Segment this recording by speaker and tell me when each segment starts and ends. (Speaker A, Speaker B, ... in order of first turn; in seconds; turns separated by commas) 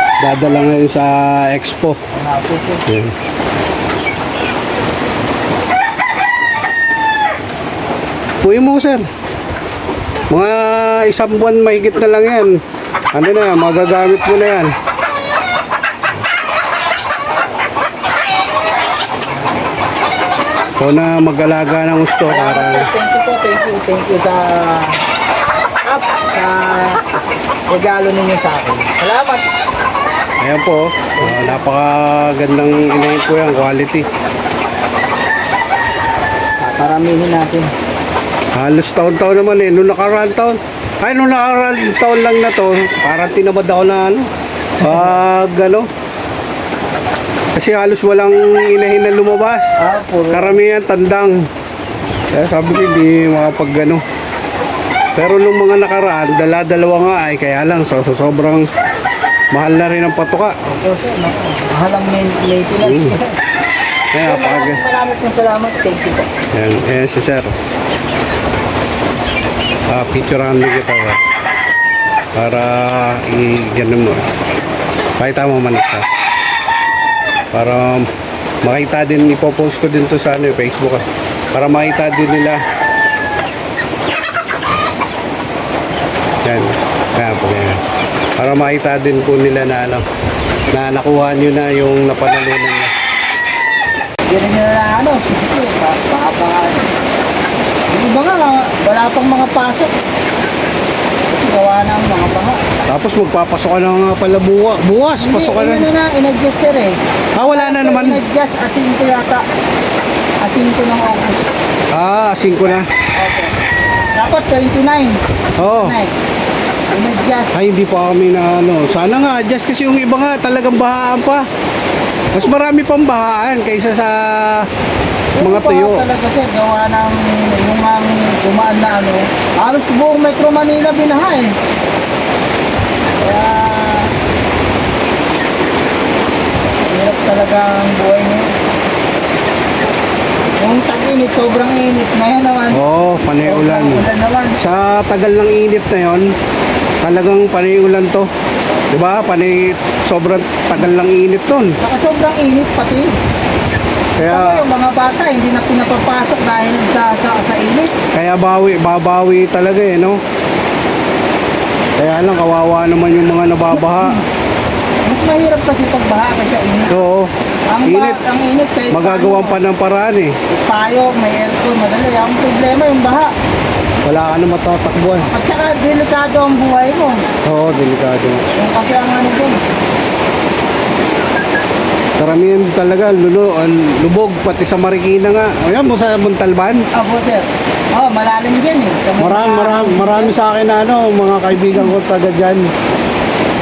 Speaker A: 0.2-2.0, Speaker B: 2.1-2.8, Speaker A: 2.9-3.1, Speaker A: 8.4-9.0, Speaker A: 10.3-12.6, Speaker A: 13.1-14.7, Speaker A: 20.8-22.9, Speaker B: 22.2-25.0, Speaker B: 25.8-27.0, Speaker B: 27.7-29.4, Speaker A: 30.4-34.1, Speaker B: 31.2-31.6, Speaker B: 36.6-37.7, Speaker A: 38.5-44.3, Speaker A: 44.8-45.9, Speaker B: 44.8-45.2, Speaker A: 47.5-49.7, Speaker B: 49.8-50.6, Speaker A: 50.3-51.4, Speaker A: 52.3-54.0, Speaker A: 55.1-58.7, Speaker A: 59.5-60.5, Speaker B: 60.6-63.3, Speaker A: 62.8-63.2, Speaker A: 64.1-64.8, Speaker B: 64.2-66.3, Speaker A: 66.5-67.5, Speaker A: 69.9-71.2, Speaker A: 72.3-74.3, Speaker A: 75.2-76.1, Speaker A: 77.5-78.1, Speaker A: 78.6-82.6, Speaker A: 86.4-87.8, Speaker A: 88.4-90.0, Speaker A: 90.7-92.9, Speaker B: 94.3-96.9, Speaker B: 97.9-99.9, Speaker B: 101.3-102.6, Speaker A: 102.8-105.9, Speaker B: 105.2-109.4, Speaker A: 107.3-108.2, Speaker B: 110.4-111.5, Speaker A: 111.9-112.9, Speaker B: 113.2-113.5, Speaker B: 114.1-116.1, Speaker A: 115.6-116.0, Speaker B: 116.9-117.6, Speaker A: 117.5-121.5, Speaker A: 122.3-124.7, Speaker B: 125.4-131.5, Speaker A: 125.4-126.1, Speaker B: 133.2-134.1, Speaker B: 136.9-138.5, Speaker B: 140.6-142.8, Speaker A: 142.7-144.1, Speaker B: 143.4-144.6, Speaker A: 144.6-146.3, Speaker A: 147.0-148.3, Speaker A: 148.9-151.8, Speaker B: 151.8-153.1, Speaker A: 154.2-154.6, Speaker B: 154.2-157.9, Speaker A: 158.1-160.2, Speaker A: 162.0-164.2, Speaker B: 163.7-164.2, Speaker B: 165.1-167.0, Speaker A: 166.9-167.3, Speaker B: 167.7-169.6, Speaker A: 167.8-168.2, Speaker A: 168.9-170.3, Speaker B: 170.5-173.3, Speaker A: 174.0-175.3, Speaker B: 175.2-177.2, Speaker A: 177.4-178.4, Speaker B: 178.5-179.6, Speaker A: 182.2-186.9, Speaker B: 186.9-190.3, Speaker A: 189.2-192.7